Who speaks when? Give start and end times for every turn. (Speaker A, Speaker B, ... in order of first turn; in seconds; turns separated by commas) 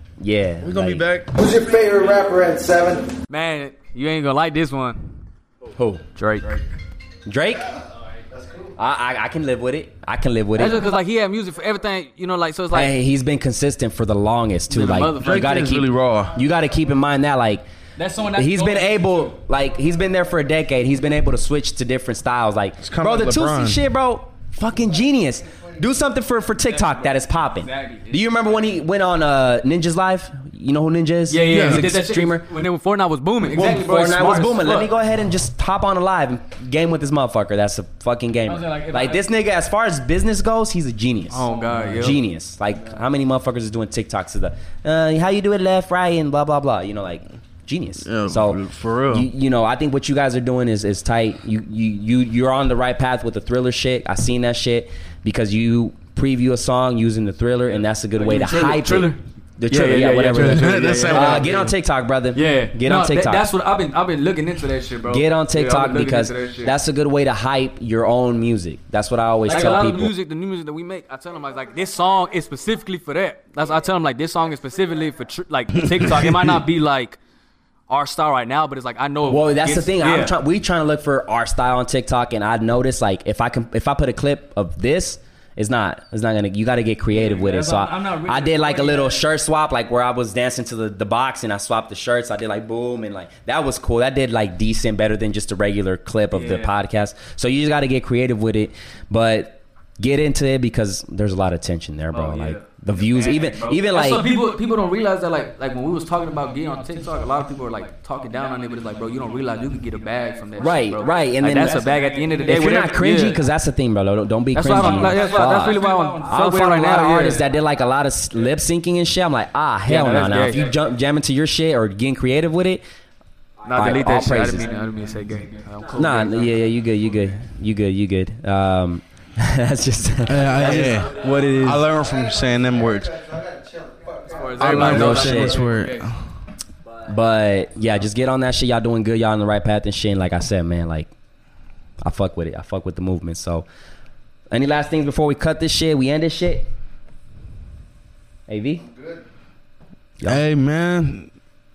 Speaker A: 0.2-1.1, Speaker B: 0.6-1.3, Speaker C: 1.3-3.1, Speaker D: 3.3-5.1, Speaker A: 5.8-6.0, Speaker D: 6.2-6.6, Speaker A: 7.3-7.8, Speaker C: 8.3-8.7, Speaker A: 8.8-10.9, Speaker D: 10.6-12.9, Speaker A: 12.7-17.6, Speaker D: 14.7-15.9, Speaker B: 15.2-16.4, Speaker E: 18.0-19.4, Speaker A: 18.2-32.5, Speaker B: 22.8-23.8, Speaker C: 25.4-25.9, Speaker E: 26.7-28.6, Speaker D: 31.3-34.9, Speaker B: 31.5-31.9, Speaker A: 33.5-41.5, Speaker E: 38.5-39.3, Speaker D: 41.3-42.2, Speaker E: 41.4-43.0, Speaker A: 42.0-63.5, Speaker B: 48.0-49.3, Speaker D: 58.2-59.2, Speaker D: 59.7-61.7, Speaker B: 60.3-61.7, Speaker D: 62.4-66.7, Speaker A: 65.1-70.1, Speaker D: 69.5-77.2, Speaker E: 69.5-69.8, Speaker B: 75.8-76.6, Speaker D: 77.9-80.3, Speaker A: 79.3-104.2, Speaker E: 87.1-89.2, Speaker E: 96.4-96.7, Speaker D: 102.1-102.6, Speaker E: 102.4-104.5, Speaker D: 103.2-113.4, Speaker E: 105.9-113.5, Speaker A: 110.6-111.8, Speaker A: 112.4-122.8, Speaker D: 114.5-117.4, Speaker E: 114.6-116.5, Speaker E: 117.2-117.5, Speaker D: 119.9-120.8, Speaker E: 120.4-120.9, Speaker D: 123.6-126.6, Speaker E: 123.7-126.5, Speaker A: 123.7-124.7, Speaker A: 126.0-131.8, Speaker B: 130.2-133.1, Speaker E: 130.6-131.5, Speaker C: 130.7-131.0, Speaker D: 130.7-131.4, Speaker C: 131.9-134.8, Speaker D: 134.3-136.1, Speaker B: 134.6-136.1, Speaker A: 134.7-135.6, Speaker E: 134.7-135.9, Speaker A: 137.1-141.1, Speaker A: 142.0-143.7, Speaker A: 144.5-146.7, Speaker A: 148.5-148.8, Speaker C: 148.9-149.2, Speaker B: 150.2-151.3